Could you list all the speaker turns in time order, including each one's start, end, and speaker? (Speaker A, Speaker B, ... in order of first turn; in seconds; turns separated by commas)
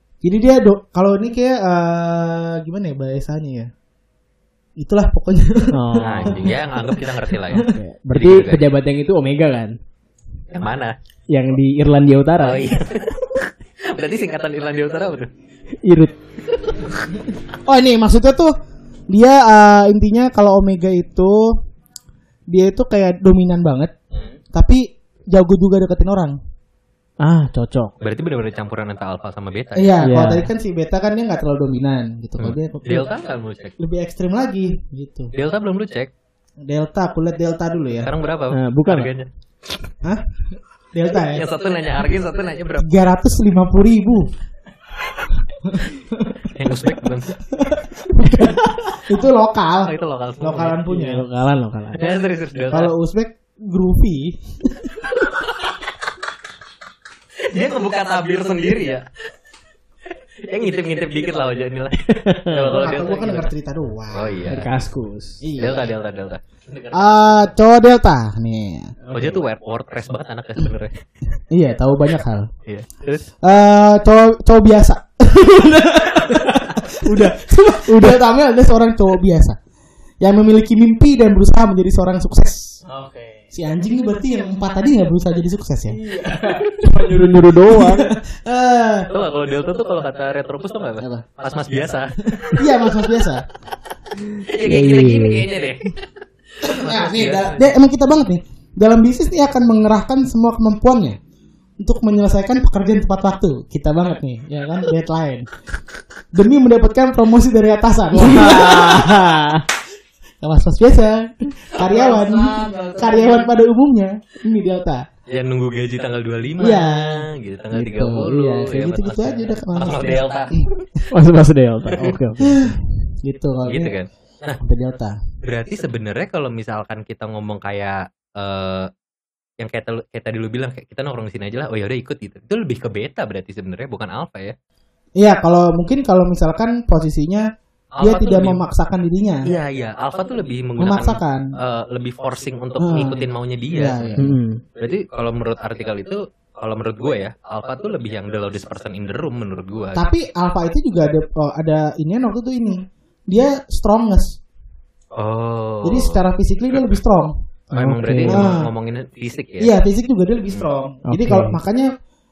Speaker A: 0.2-3.7, Speaker A: 4.8-7.7, Speaker B: 5.7-6.5, Speaker C: 6.0-8.6, Speaker B: 7.5-9.7, Speaker C: 10.5-10.9, Speaker B: 11.3-12.6, Speaker C: 12.4-15.3, Speaker B: 15.8-16.1, Speaker A: 17.6-18.5, Speaker A: 19.1-21.5, Speaker A: 22.5-23.9, Speaker A: 24.5-26.4, Speaker B: 27.2-27.9, Speaker C: 28.0-30.0, Speaker A: 29.8-33.1, Speaker B: 30.0-30.5, Speaker C: 32.4-33.7, Speaker A: 33.8-35.3, Speaker C: 35.3-36.1, Speaker A: 36.6-38.1, Speaker C: 38.0-39.3, Speaker B: 38.5-39.1, Speaker A: 40.9-41.5, Speaker C: 41.3-42.9, Speaker A: 42.8-44.3, Speaker A: 45.6-46.8, Speaker C: 46.5-47.4, Speaker A: 47.5-51.2, Speaker C: 49.8-50.8, Speaker B: 50.9-52.2, Speaker C: 51.9-52.9, Speaker A: 52.7-54.9, Speaker C: 57.4-59.0, Speaker C: 60.1-63.5, Speaker B: 62.0-62.7, Speaker A: 62.6-64.5, Speaker C: 64.1-64.7, Speaker B: 64.5-65.4, Speaker A: 65.4-65.9, Speaker C: 65.6-67.4, Speaker A: 66.9-68.9, Speaker B: 69.1-69.3, Speaker C: 69.1-71.0, Speaker A: 71.5-72.5, Speaker C: 72.7-73.3, Speaker A: 73.4-79.6, Speaker B: 76.3-78.2, Speaker A: 80.2-82.8, Speaker B: 82.9-83.5, Speaker A: 83.5-86.0, Speaker B: 85.9-88.1, Speaker A: 86.8-89.1, Speaker C: 89.1-92.7, Speaker A: 91.0-91.2, Speaker A: 92.4-93.5, Speaker C: 94.4-96.0, Speaker B: 94.6-95.5, Speaker C: 96.6-97.7, Speaker A: 96.6-101.2, Speaker A: 101.8-105.5, Speaker A: 106.3-109.3, Speaker B: 108.1-109.6, Speaker A: 110.4-115.0, Speaker C: 111.8-113.5, Speaker C: 115.3-121.1, Speaker A: 116.6-120.7, Speaker B: 121.1-122.8, Speaker A: 122.4-124.0, Speaker C: 123.7-124.6, Speaker A: 124.6-125.2, Speaker C: 125.4-128.9, Speaker C: 129.6-134.5, Speaker A: 135.2-137.4, Speaker C: 138.0-138.6, Speaker A: 138.0-139.5, Speaker C: 139.4-144.2, Speaker A: 140.8-141.4, Speaker A: 142.8-144.4, Speaker B: 144.2-144.6, Speaker C: 144.8-150.1, Speaker A: 149.9-154.4, Speaker C: 155.2-156.2, Speaker A: 155.8-157.3, Speaker C: 157.7-159.7, Speaker B: 157.7-158.5, Speaker A: 158.2-158.7, Speaker A: 159.6-161.9, Speaker B: 161.0-161.6